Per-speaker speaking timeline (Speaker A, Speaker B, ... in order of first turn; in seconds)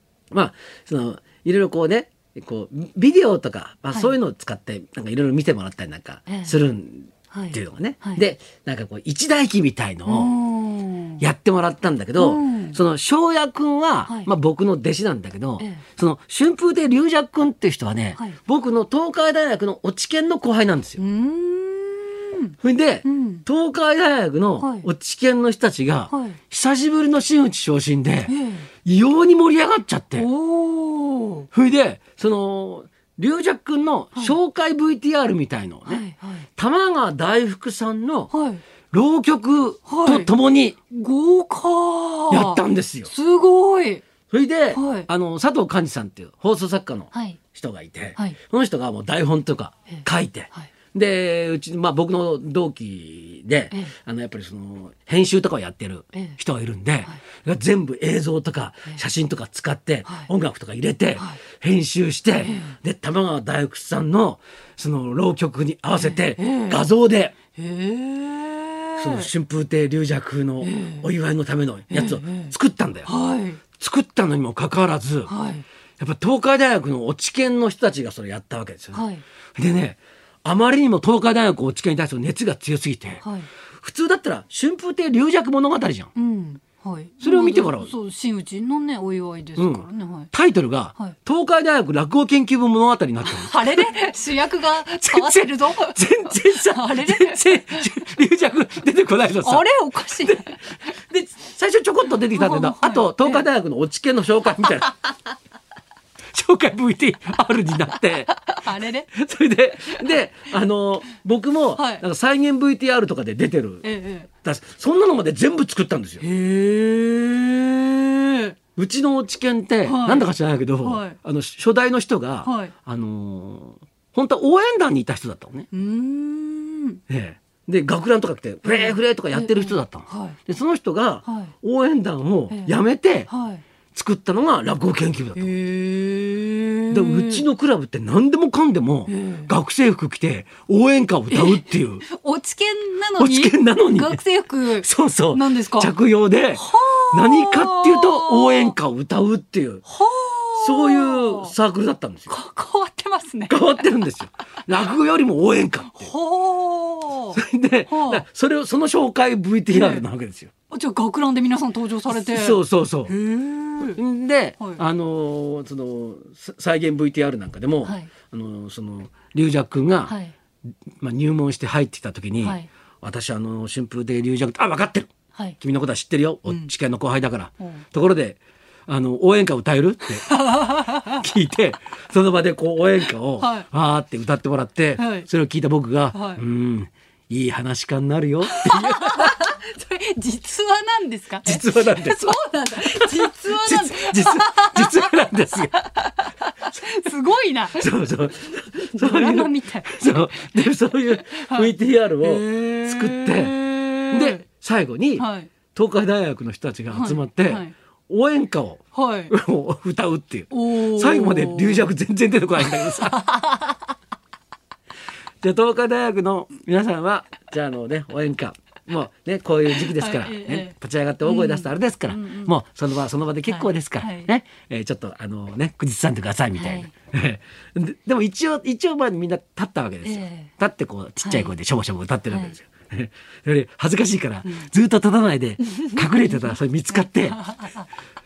Speaker A: 0.3-10.3, 11.2-21.0, 22.6-30.3, 31.5-36.0, 36.6-38.3, 38.9-40.8, 42.3-43.1, 44.3-67.3, 69.0-73.1, 73.8-75.3, 76.0-79.0, 79.6-83.2, 83.8-86.1, 87.2-87.9, 89.6-93.9, 95.0-99.7, 100.2-105.0, 106.3-108.3, 109.1-113.9, 114.4-116.3, 118.8-125.7, 127.1-133.3, 133.9-135.6, 136.9-142.1, 143.2-144.2, 144.8-149.8, 150.6-152.3, 153.5-156.1, 157.3-160.5, 162.1-163.2, 163.8-170.2, 171.0-180.3, 180.9-189.4, 191.4-195.8, 196.6-196.9, 197.8-203.6, 204.1-213.2, 215.4-237.4
Speaker B: 6.3-6.5, 7.3-8.2, 10.1-11.2, 12.2-12.8, 21.0-23.4, 24.6-24.9, 26.1-26.4, 28.3-28.7, 30.2-31.5, 35.9-36.5, 38.3-38.6, 39.9-40.3, 40.9-44.0, 44.7-45.1, 47.1-47.4, 62.4-62.8, 66.0-66.8, 67.6-69.3, 70.6-71.1, 71.9-72.5, 73.1-73.6, 75.3-75.7, 78.9-79.2, 83.2-83.5, 86.2-90.3, 93.2-98.1, 99.4-100.7, 102.3-103.5, 108.3-109.1, 111.8-112.0, 113.8-114.3, 116.2-118.6, 119.8-120.3, 120.8-121.2, 122.4-122.7, 125.7-127.0, 128.6-130.4, 131.3-131.5, 132.5-132.8, 133.3-133.6, 135.4-137.5, 139.1-139.5, 141.3-145.9, 146.6-148.8, 149.8-151.5, 152.3-153.8, 155.9-158.2, 159.7-160.1, 160.7-164.0, 167.8-168.1, 170.1-170.3, 172.4-172.7, 180.2-181.2, 183.4-183.7, 185.0-185.3, 186.1-186.4, 188.5-195.2, 195.7-197.9, 198.8-204.4, 205.2-205.5, 206.9-207.7, 208.9-209.3, 210.5-211.9, 212.6-213.8, 219.8-222.5, 223.5-224.3, 226.5-226.9, 230.0-230.5, 231.2-231.5, 232.3-232.6, 235.7-236.5, 237.3-237.9